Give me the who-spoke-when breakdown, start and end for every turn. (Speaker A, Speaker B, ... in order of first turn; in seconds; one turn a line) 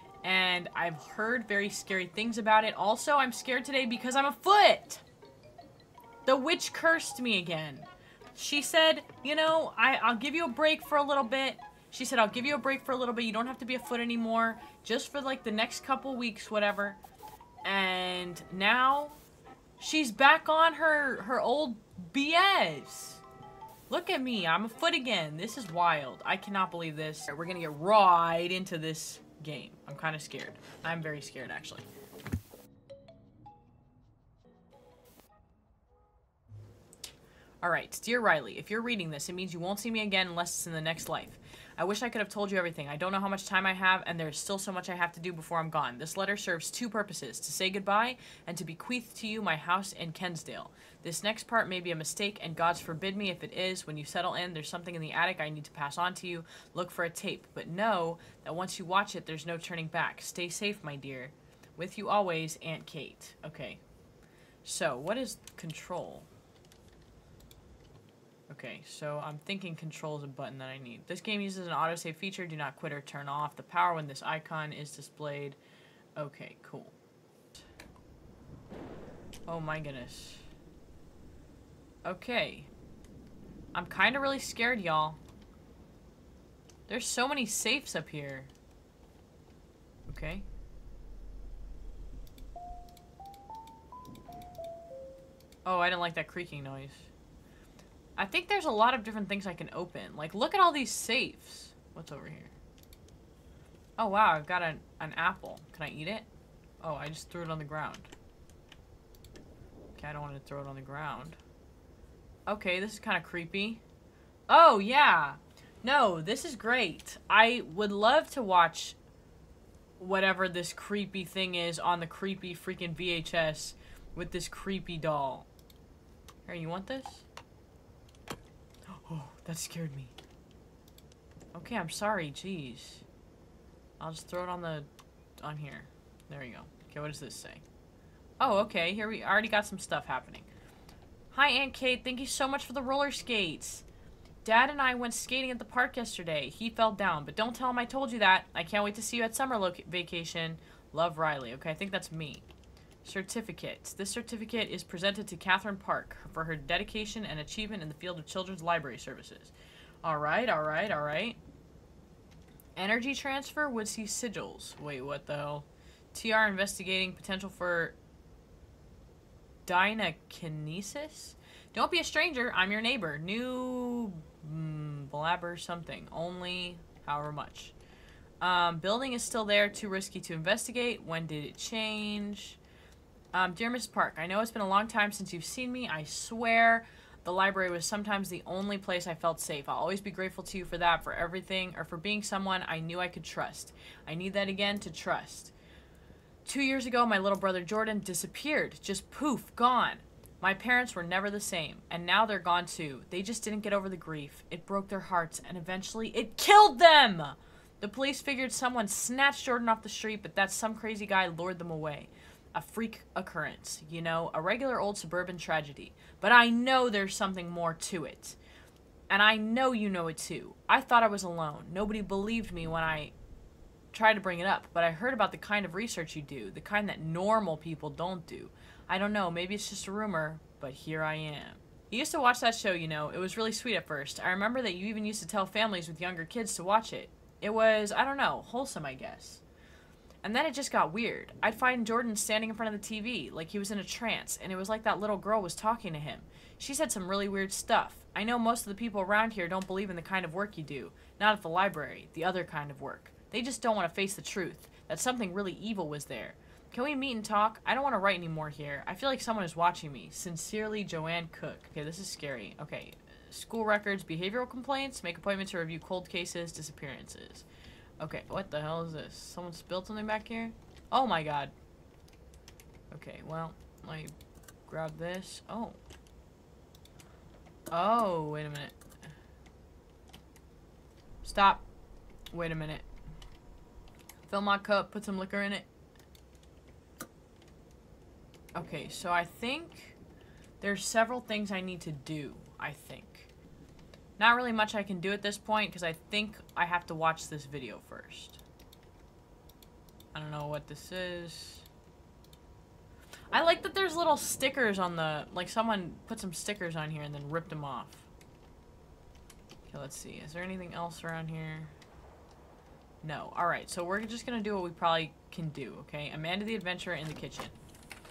Speaker A: 0.2-5.0
Speaker A: 6.2-17.0
Speaker A: 17.6-19.2
Speaker A: 19.8-23.2
Speaker A: 23.9-31.9
Speaker A: 37.6-63.8
Speaker A: 64.6-66.3
Speaker A: 68.5-75.6
Speaker A: 76.2-76.9
Speaker A: 79.5-80.4
Speaker A: 82.0-82.7
Speaker A: 83.7-85.2
Speaker A: 86.9-88.5
Speaker A: 90.1-90.5
Speaker A: 95.6-97.1
Speaker A: 98.2-102.6
Speaker A: 104.0-106.3
Speaker A: 106.8-108.1
Speaker A: 109.9-111.4
Speaker A: 112.5-113.8
Speaker A: 114.5-119.0
Speaker A: 120.0-125.5
Speaker A: 126.4-127.2
Speaker A: 128.9-130.1
Speaker A: 131.5-133.0
Speaker A: 134.0-134.9
Speaker A: 135.4-137.6
Speaker A: 138.4-140.5
Speaker A: 141.3-143.8
Speaker A: 144.4-152.4
Speaker A: 153.0-159.5
Speaker A: 160.0-161.4
Speaker A: 162.8-168.0
Speaker A: 169.7-177.7
Speaker A: 178.4-182.6
Speaker A: 183.3-195.5
Speaker A: 196.4-218.4
Speaker A: 219.1-223.1
Speaker A: 223.9-239.4
Speaker A: 240.2-267.4
Speaker A: 268.0-271.5
Speaker A: 272.9-274.1
Speaker A: 274.7-275.8
Speaker A: 277.7-278.8
Speaker A: 281.2-281.6
Speaker A: 282.3-282.9
Speaker A: 284.3-285.7
Speaker A: 288.5-289.9
Speaker A: 290.6-293.3
Speaker A: 294.2-298.4
Speaker A: 300.1-301.6
Speaker A: 303.3-308.1
Speaker A: 309.7-311.7
Speaker A: 313.0-317.5